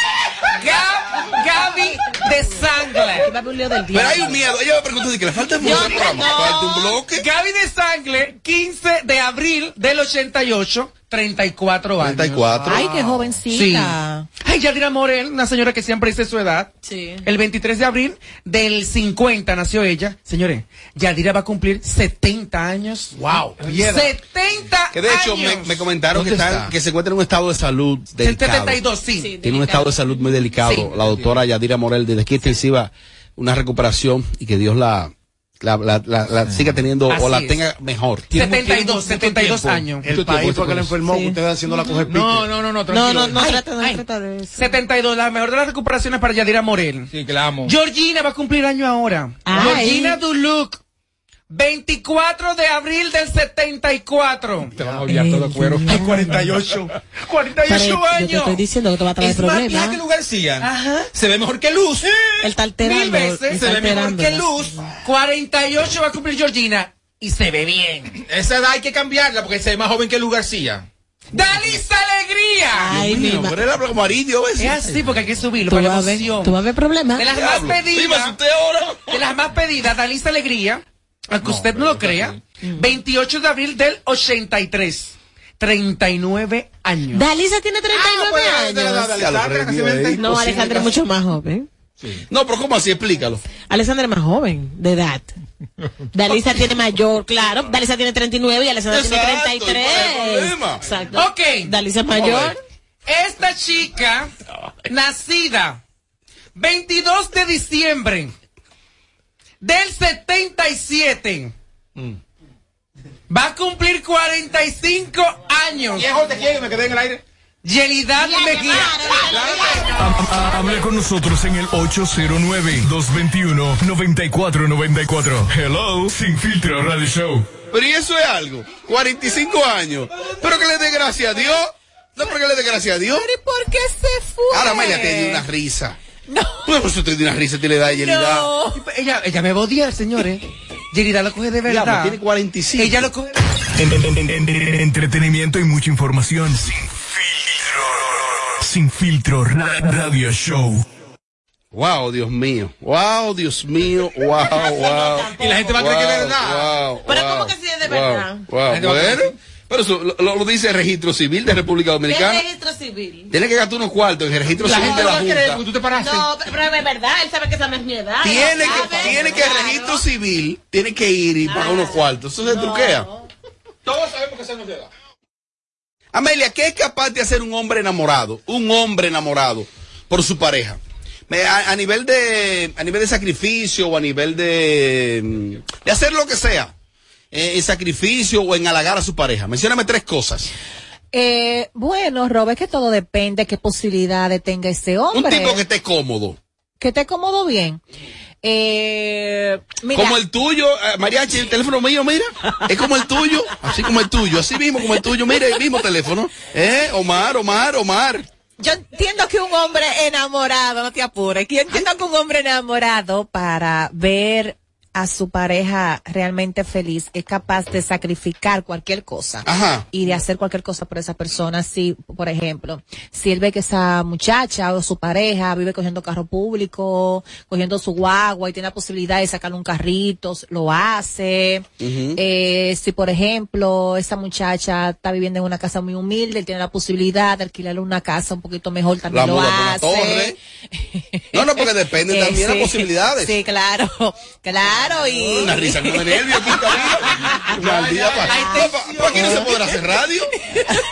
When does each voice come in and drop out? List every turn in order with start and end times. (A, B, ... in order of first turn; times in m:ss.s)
0:00.6-0:03.3 A
0:03.1-0:04.5 B
0:03.9-0:07.3 C
0:05.6-0:06.6 B
0:07.1-0:12.4 A
0:12.0-0:12.8 C
0:12.4-0:13.4 D
0:12.7-0:14.3 E
0:13.5-0:16.7 A
0:16.8-0:17.2 B
0:17.2-0:25.8 A
0:23.1-0:24.2 D
0:24.9-0:28.8 C
0:26.1-0:26.7 F
0:28.2-0:29.4 A
0:29.1-0:30.2 B
0:29.4-0:38.3 C
0:30.8-0:31.4 F
0:36.5-0:36.8 F
0:37.1-0:37.6 A
0:38.3-0:41.0 F
0:38.3-0:40.1 A
0:40.0-0:42.5 D
0:41.0-0:41.4 B
0:42.1-0:43.5 F
0:42.9-0:44.8 B
0:43.4-0:44.0 A
0:44.5-0:47.1 A
0:47.1-0:47.7 F
0:47.6-0:50.8 A
0:49.4-0:50.2 B
0:51.5-0:54.7 A
0:54.7-0:55.3 D
0:54.8-0:56.9 F
0:55.1-0:56.4 B
0:56.0-0:56.4 A
0:56.5-0:56.8 D
0:57.3-0:58.6 A
0:57.6-1:00.0 B
0:57.7-0:58.4 F
0:59.2-1:02.2 F
1:02.4-1:04.6 B
1:02.8-1:03.7 A
1:03.5-1:04.7 F
1:05.0-1:08.2 A
1:08.1-1:10.9 F
1:11.3-1:13.0 A
1:12.7-1:13.6 B
1:12.9-1:14.9 C
1:14.6-1:16.5 A
1:15.7-1:17.4 B
1:17.2-1:18.4 A
1:17.2-1:19.1 C
1:19.1-1:27.2 A
1:21.4-1:22.4 F
1:22.6-1:22.9 B
1:27.1-1:29.1 B
1:27.9-1:31.0 F
1:29.1-1:30.8 C
1:30.1-1:31.7 B
1:32.0-1:32.3 F
1:32.3-1:33.4 C
1:33.6-1:35.3 B
1:36.1-1:42.6 B
1:38.9-1:40.8 C
1:41.2-1:41.7 A
1:42.1-1:42.5 C
1:43.1-1:44.3 A
1:44.9-1:45.8 A
1:46.6-1:48.3 A
1:49.6-1:51.5 A
1:53.3-1:56.1 A
1:55.9-1:57.2 F
1:57.6-1:59.1 A
1:58.2-2:00.0 E
2:00.0-2:07.5 G
2:07.7-2:13.3 C
2:13.1-2:15.4 E
2:14.5-2:16.0 C
2:16.3-2:16.6 E
2:16.6-2:18.6 C
2:18.0-2:18.8 E
2:18.7-2:22.2 A
2:21.7-2:23.1 C
2:22.8-2:23.4 A
2:23.8-2:27.9 G
2:28.6-2:30.8 G
2:31.7-2:42.4 C
2:34.3-2:35.9 B
2:35.4-2:36.7 F
2:37.0-2:38.5 B
2:38.7-2:39.4 F
2:42.0-2:43.3 B
2:43.3-2:45.6 C
2:44.6-2:46.3 F
2:44.7-2:45.2 B
2:46.0-2:50.0 B
2:48.2-2:53.1 C
2:51.5-2:53.0 B
2:53.8-2:54.9 F
2:56.1-3:06.7 C
3:07.3-3:10.5 C
3:11.1-3:15.6 E
3:15.1-3:16.4 C
3:16.8-3:17.8 E
3:18.4-3:20.2 E
3:19.9-3:28.3 C
3:28.6-4:00.4 E
3:39.4-3:39.9 C
3:51.8-3:52.2 C
3:59.1-4:00.4 C
4:00.9-4:06.2 E
4:01.3-4:03.4 C
4:05.2-4:10.3 C
4:07.6-4:08.1 F
4:08.3-4:08.7 E
4:08.3-4:09.0 A